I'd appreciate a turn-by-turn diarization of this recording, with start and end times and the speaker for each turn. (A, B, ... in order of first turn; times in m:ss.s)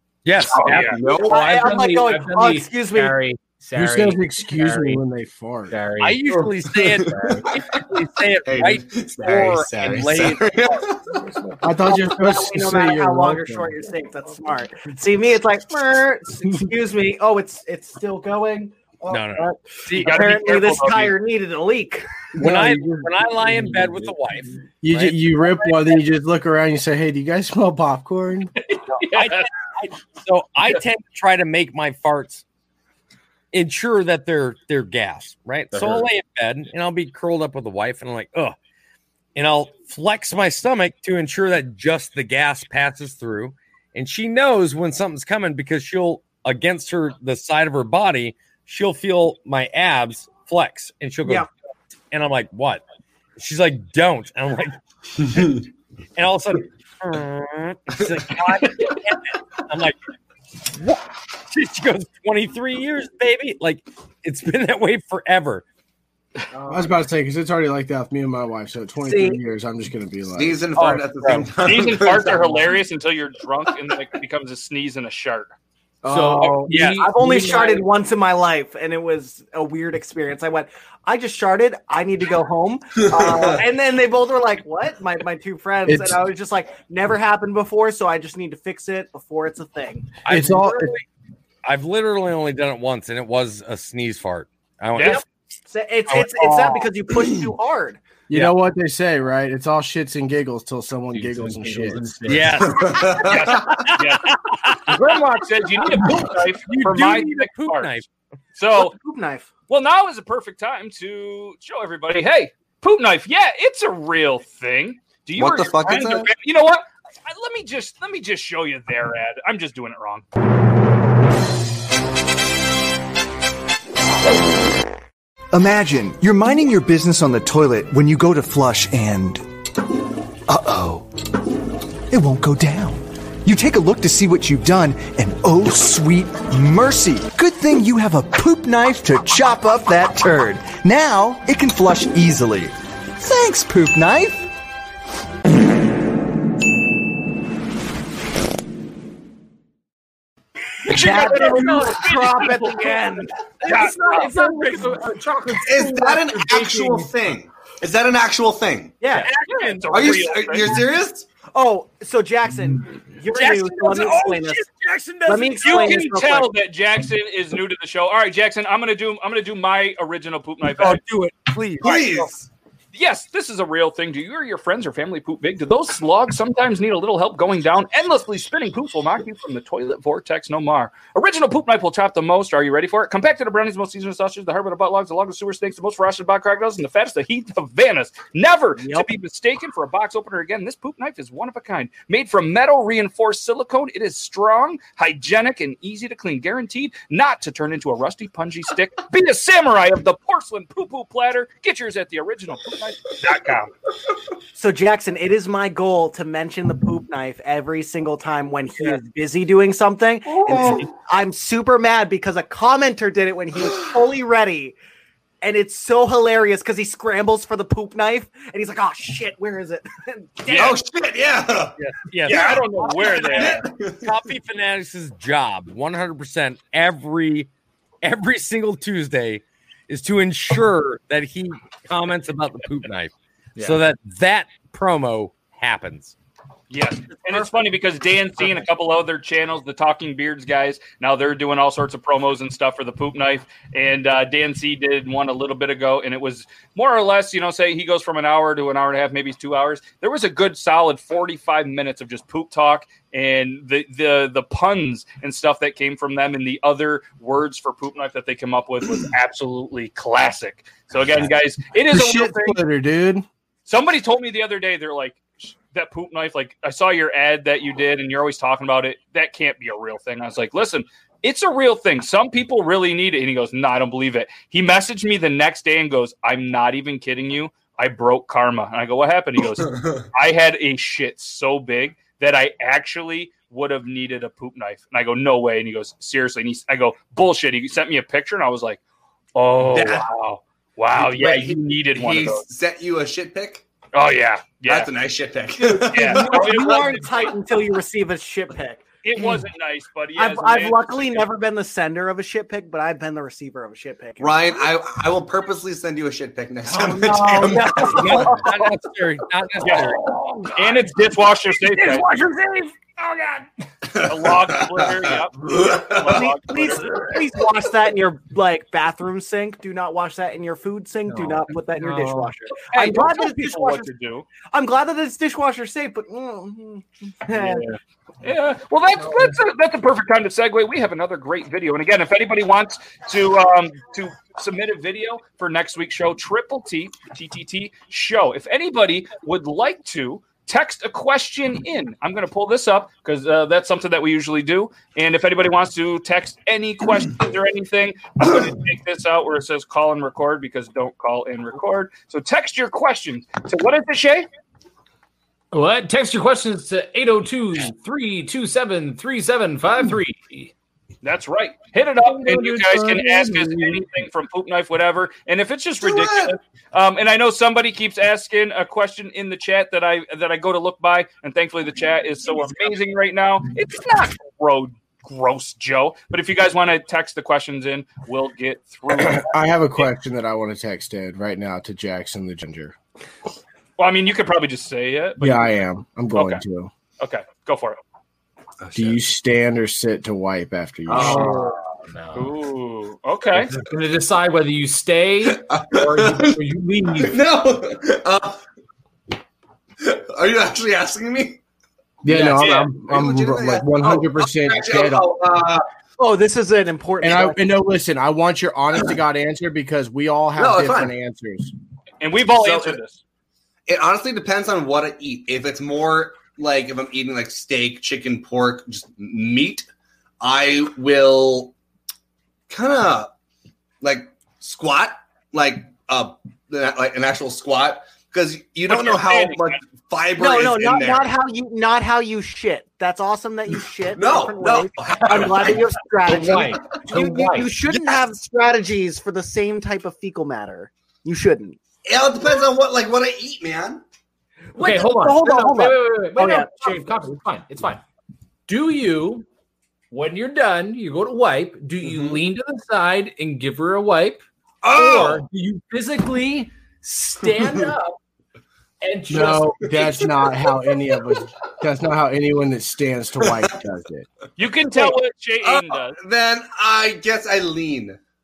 0:00.2-0:01.3 A
0:00.5-0:01.0 B
0:00.6-0:05.0 C
0:01.2-0:03.2 D
0:03.7-0:05.8 E
0:05.7-0:07.5 C
0:06.0-0:11.0 A
0:06.7-0:07.6 F
0:08.4-0:11.2 F
0:11.6-0:13.8 E
0:11.8-0:22.0 D
0:19.1-0:20.4 A
0:19.9-0:21.1 B
0:22.4-0:26.0 A
0:22.4-0:23.1 E
0:23.4-0:24.2 C
0:24.8-0:28.5 E
0:28.7-0:29.5 B
0:28.9-0:32.4 A
0:33.5-0:38.6 A
0:35.7-0:36.1 C
0:39.3-0:51.5 A
0:52.1-0:52.8 A
0:53.4-0:55.6 A
0:56.2-1:00.0 A
1:00.6-1:05.6 A
1:06.7-1:10.6 E
1:09.0-1:09.4 D
1:10.3-1:12.8 F
1:10.7-1:11.5 A
1:11.6-1:15.5 B
1:16.0-1:16.7 E
1:16.0-1:17.9 C
1:16.4-1:17.0 A
1:16.8-1:30.2 D
1:23.1-1:23.6 F
1:25.8-1:26.2 E
1:30.2-1:31.0 A
1:30.3-1:30.9 E
1:31.6-1:35.2 A
1:35.0-1:35.2 B
1:35.7-1:38.0 D
1:36.1-1:36.9 A
1:38.3-1:42.1 E
1:41.1-1:42.7 C
1:42.2-1:48.1 A
1:42.6-1:43.9 F
1:43.2-1:47.9 B
1:48.6-1:48.9 B
1:48.7-1:49.5 D
1:49.7-2:00.2 B
1:55.4-1:56.3 F
2:05.5-2:09.4 G
2:10.5-2:11.0 G
2:12.1-2:24.5 G
2:30.8-2:33.3 D
2:30.9-2:33.0 B
2:33.6-2:37.1 C
2:33.6-2:35.0 A
2:33.7-2:34.3 B
2:35.6-2:39.0 F
2:39.0-2:39.3 D
2:39.1-2:40.2 A
2:39.4-2:40.8 B
2:39.9-2:41.3 F
2:41.5-2:44.6 D
2:43.3-2:46.2 A
2:45.2-2:46.5 D
2:45.6-2:51.0 B
2:50.7-2:52.3 A
2:51.8-2:52.5 F
2:52.9-3:23.7 B
3:08.8-3:09.1 D
3:24.5-3:34.8 D
3:35.4-3:40.8 D
3:40.5-3:40.8 B
3:40.5-3:42.6 F
3:41.8-3:47.5 A
3:42.2-3:43.6 B
3:43.2-3:44.1 F
3:48.0-3:56.1 A
3:53.6-3:53.8 C
3:56.7-4:22.6 B
4:21.7-4:23.2 E
4:23.6-4:48.8 B
4:39.7-4:40.0 F
4:49.3-4:52.4 B
4:49.6-4:50.1 F
4:50.9-4:53.6 F
4:53.9-4:54.9 B
4:54.7-4:57.0 F
4:55.6-4:58.8 D
4:55.9-4:57.3 B
4:59.0-5:01.2 B
5:00.2-5:04.4 D
5:04.2-5:08.3 F
5:06.7-5:08.7 D
5:07.7-5:10.4 A
5:09.6-5:09.9 B
5:10.5-5:12.1 B
5:11.8-5:13.4 C
5:13.9-5:16.9 F
5:14.0-5:17.1 B
5:16.1-5:23.9 D
5:21.1-5:22.3 C
5:22.7-5:24.2 B
5:24.5-5:27.7 D
5:27.4-5:27.7 C
5:28.2-5:54.3 B
5:29.0-5:29.3 C
5:55.5-6:00.5 C
6:01.0-6:19.8 B
6:02.2-6:03.7 E
6:05.8-6:06.3 F
6:18.9-6:22.7 E
6:23.8-6:25.5 B
6:25.2-6:26.7 E
6:26.1-6:26.4 B
6:27.0-6:27.8 B
6:28.6-6:29.0 F
6:28.7-6:31.4 E
6:30.9-6:31.4 F
6:30.9-6:32.3 C
6:32.1-6:33.5 B
6:33.4-6:37.2 C
6:35.2-6:38.4 F
6:39.8-6:41.4 F
6:42.0-6:45.1 E
6:42.1-6:45.6 F
6:42.1-6:42.4 C
6:42.4-6:42.6 B
6:46.0-6:47.4 D
6:47.0-6:51.5 E
6:50.4-6:50.9 F
6:52.0-6:53.0 B
6:52.4-6:52.8 F
6:53.7-6:59.7 F
7:00.2-7:01.5 F
7:02.5-7:03.1 F
7:03.8-7:11.1 F
7:08.7-7:09.6 B
7:10.2-7:21.6 D
7:13.9-7:16.8 F
7:16.1-7:17.5 C
7:21.8-7:23.8 F
7:24.5-7:27.8 C
7:24.6-7:26.8 D
7:28.5-7:29.2 C
7:29.9-7:38.0 C
7:31.8-7:32.2 F
7:34.6-7:35.2 F
7:37.4-7:37.6 F
7:38.8-7:40.2 C
7:39.1-7:44.0 E
7:39.7-7:40.0 F
7:43.2-7:43.5 F
7:44.4-7:46.0 B
7:44.7-7:45.0 D
7:45.4-7:48.0 F